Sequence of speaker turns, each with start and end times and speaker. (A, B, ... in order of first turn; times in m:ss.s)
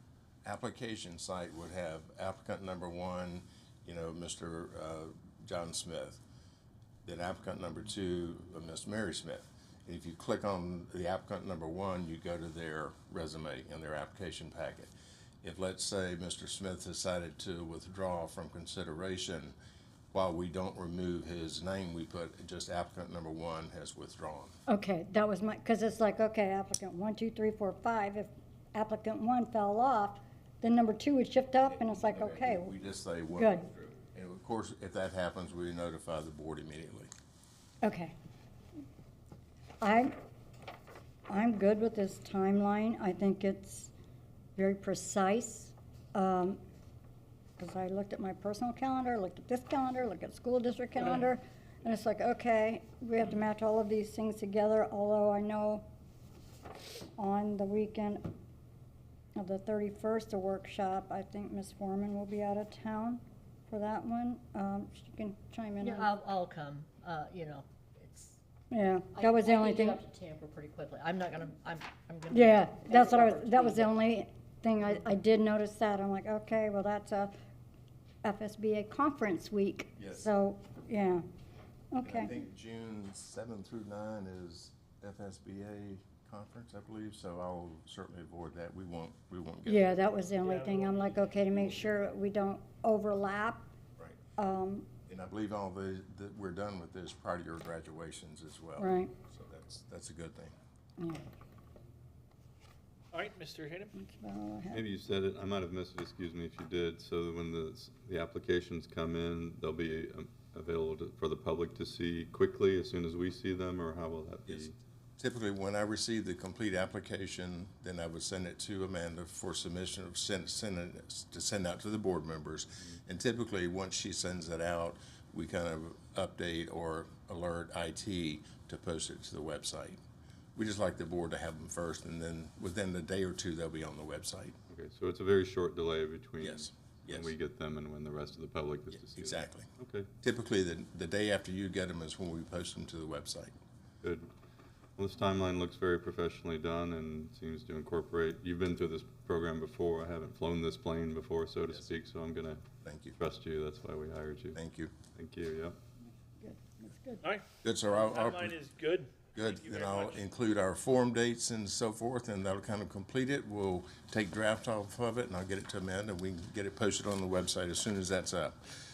0:00.4-0:06.2 A
0:07.0-0:14.9 A
0:15.4-0:19.6 A
0:20.1-0:24.6 A
0:24.7-0:32.7 B
0:31.7-0:37.1 A
0:33.4-0:33.7 B
0:37.8-0:38.2 B
0:39.8-0:40.1 B
0:41.3-0:43.9 B
0:44.6-0:46.6 B
0:47.6-0:55.9 B
0:57.2-0:58.3 B
0:59.4-1:06.1 B
1:05.8-1:08.4 C
1:08.7-1:10.0 B
1:09.1-1:13.9 C
1:12.3-1:17.3 B
1:18.2-1:21.2 B
1:20.0-1:20.3 A
1:21.9-1:22.3 B
1:22.0-1:29.9 A
1:29.7-1:33.7 B
1:30.4-1:31.9 D
1:34.4-1:34.9 B
1:35.1-1:40.5 A
1:38.8-1:39.1 B
1:41.0-1:41.2 B
1:43.1-1:43.9 D
1:44.0-1:44.8 B
1:44.7-1:54.8 E
1:54.5-2:10.0 A
2:10.6-2:14.6 A
2:14.7-2:20.1 E
2:16.4-2:17.3 A
2:18.9-2:23.5 A
2:24.0-2:24.3 E
2:25.0-2:32.6 E
2:32.8-2:33.2 A
2:33.2-2:34.6 E
2:34.6-2:34.9 A
2:35.2-2:35.8 E
2:36.4-2:37.2 B
2:37.2-2:40.2 D
2:37.6-2:38.6 A
2:39.4-2:48.6 A